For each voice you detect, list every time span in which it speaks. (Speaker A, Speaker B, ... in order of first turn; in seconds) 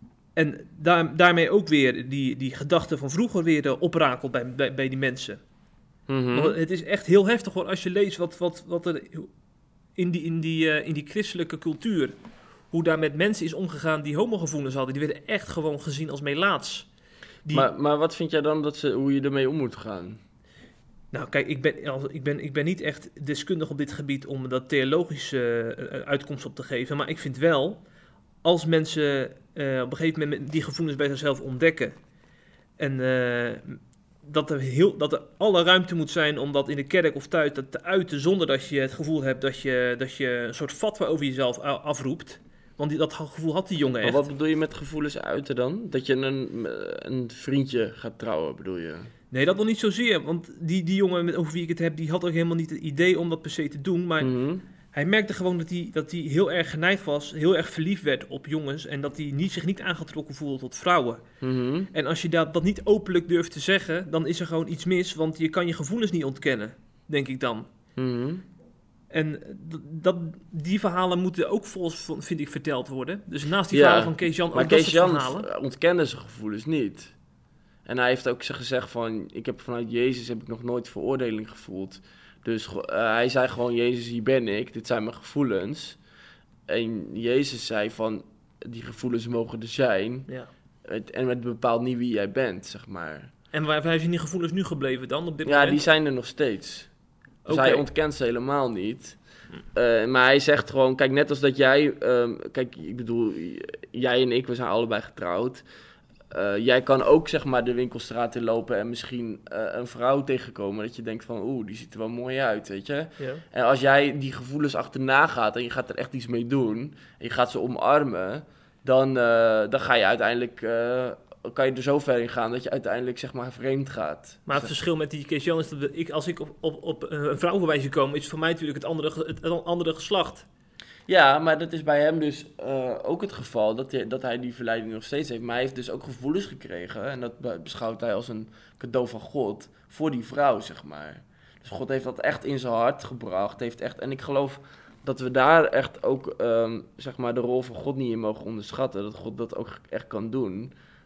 Speaker A: 0.4-5.4, 6.3-9.3, 10.0-12.2, 12.7-16.9, 21.1-27.8, 28.4-32.0, 32.8-44.2, 49.3-54.3, 54.9-61.2, 61.9-67.7, 69.1-75.5, 93.5-95.8, 97.5-97.8, 124.5-130.5
Speaker B: 6.1-6.6, 17.5-20.2, 44.0-49.1, 54.2-54.6, 61.4-61.9, 68.0-68.4, 73.7-77.1, 77.9-86.0, 86.7-90.3, 90.8-93.3, 95.5-96.9, 97.5-99.2, 99.7-105.6, 106.3-124.7, 131.1-150.7